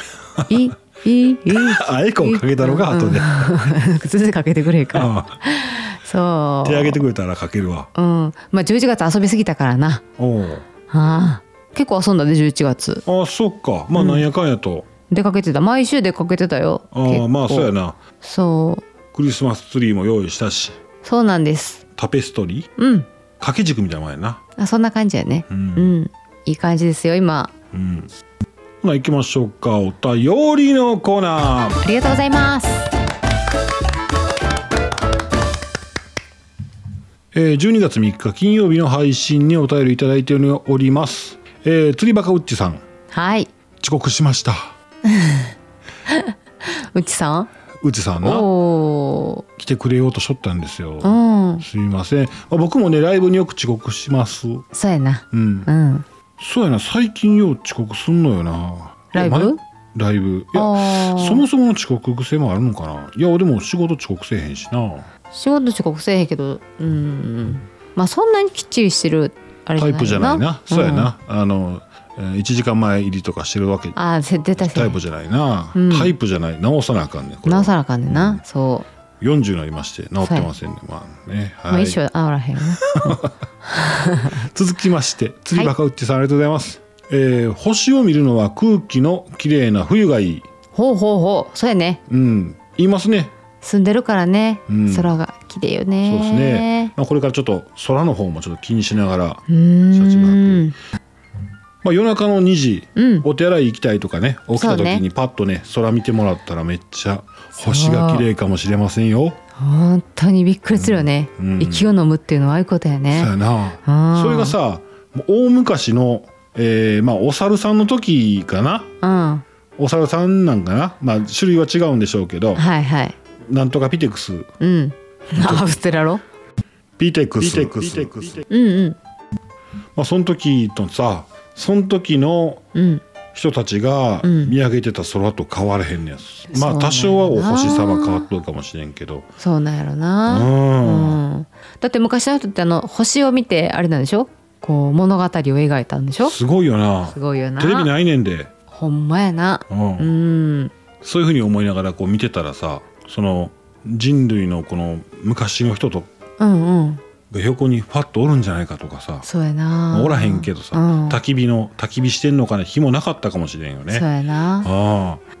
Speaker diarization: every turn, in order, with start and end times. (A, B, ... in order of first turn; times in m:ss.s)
0:00.4-0:00.6 A
0:00.5-0:07.0 B
0:01.5-0:03.5 A
0:04.9-0:05.4 A
0:06.6-0:07.9 A
0:07.9-0:10.0 B
0:10.2-0:10.6 A
0:10.9-0:13.0 B
0:13.0-0:14.9 A
0:13.9-0:14.2 B
0:15.1-0:18.9 B
0:16.9-0:18.0 A
0:19.1-0:20.8 A
0:21.0-0:21.8 B
0:22.0-0:22.7 A
0:22.8-0:23.1 B
0:23.4-0:24.4 A
0:24.6-0:27.5 B
0:25.5-0:25.9 A
0:27.7-0:28.1 A
0:28.8-0:31.8 A
0:31.8-0:32.9 B
0:37.3-0:42.8 A
0:43.1-0:43.5 B
0:43.8-0:44.7 A
0:45.1-0:45.5 B
0:46.1-0:47.5 B
0:47.8-0:48.5 A
0:48.2-0:49.4 B
0:49.6-0:54.6 A
0:51.0-0:51.6 B
0:54.7-0:56.0 B
0:55.3-0:55.7 A
0:56.4-1:05.1 A
0:59.1-0:59.6 B
1:00.5-1:01.4 B
1:05.3-1:11.1 B
1:09.8-1:14.0 A
1:13.9-1:15.0 B
1:14.6-1:18.4 A
1:15.7-1:16.1 B
1:17.4-1:18.9 B
1:19.2-1:22.0 A
1:20.2-1:20.5 B
1:21.7-1:23.2 B
1:22.8-1:23.3 A
1:23.7-1:24.4 B
1:24.3-1:30.4 A
1:30.7-1:32.0 B
1:32.1-1:33.3 A
1:33.6-1:36.9 B
1:34.7-1:35.1 A
1:36.0-1:40.7 A
1:39.5-1:40.8 B
1:41.8-1:49.4 A
1:43.0-1:43.3 B
1:44.5-1:45.0 B
1:47.6-1:48.2 B
1:49.6-1:53.3 B
1:50.7-1:51.9 A
1:53.1-1:58.9 A
1:53.8-1:54.6 B
1:59.0-1:59.4 B
1:59.8-2:02.6 A
2:02.6-2:03.2 B
2:03.4-2:04.5 A
2:04.6-2:06.2 B
2:05.4-2:05.8 A
2:07.0-2:08.5 A
2:08.5-2:09.0 B
2:10.0-2:12.6 A
2:12.7-2:13.0 B
2:13.3-2:19.3 A
2:14.2-2:14.5 B
2:16.5-2:18.3 B
2:19.4-2:26.3 B
2:20.2-2:21.2 A
2:26.2-2:28.5 A
2:27.1-2:27.9 B
2:28.7-2:30.7 B
2:29.7-2:30.1 A
2:31.0-2:36.1 A
2:36.4-2:37.0 B
2:37.3-2:39.2 A
2:39.2-2:41.2 B
2:39.9-2:44.1 A
2:43.9-2:44.7 B
2:44.6-2:45.2 A